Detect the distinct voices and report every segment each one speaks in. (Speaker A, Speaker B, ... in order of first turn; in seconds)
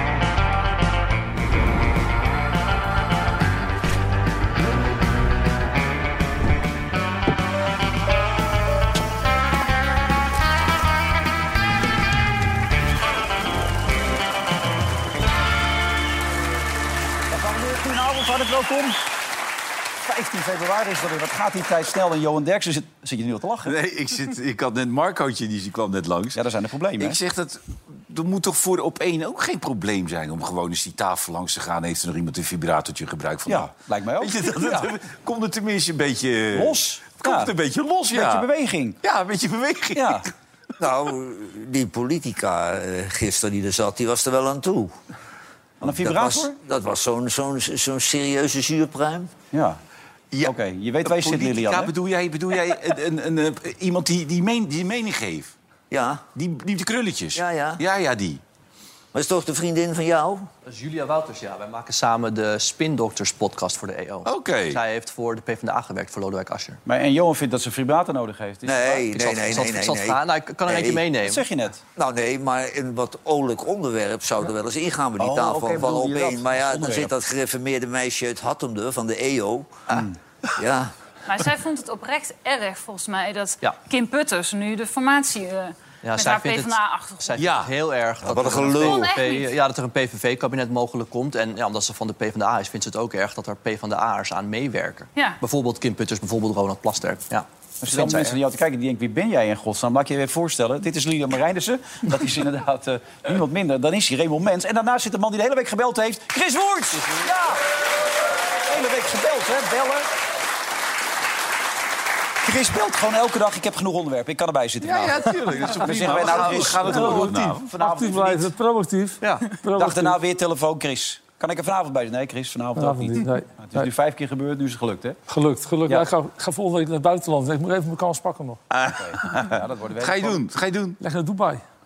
Speaker A: 17.3-19.0, 20.0-23.7, 26.3-27.2, 33.5-34.9, 36.5-37.5, 38.1-39.0, 39.9-40.2, 45.8-46.5, 49.5-49.8, 50.4-51.9, 66.8-69.0, 71.2-71.8, 75.2-77.1, 97.8-107.6, 108.6-110.1, 112.4-118.5, 119.7-125.2, 128.9-130.4
Speaker B: 23.6-26.4, 27.0-38.5, 39.0-40.3, 51.0-55.5, 56.3-58.4, 64.2-64.8, 87.4-87.7, 114.8-117.7, 128.7-129.4, 130.0-131.0
Speaker C: 40.8-44.9, 46.0-49.3, 55.9-56.2, 57.3-57.8, 59.1-60.5, 68.7-71.0, 72.0-79.8, 80.6-80.9, 88.2-89.1
Speaker D: 60.7-66.8, 69.0-71.4, 86.0-86.7, 87.3-98.4, 116.3-116.6, 119.2-119.5
Speaker E: 81.3-87.4, 88.7-89.5
Speaker F: 116.7-120.2, 122.8-123.5, 125.3-128.6, 131.0-131.6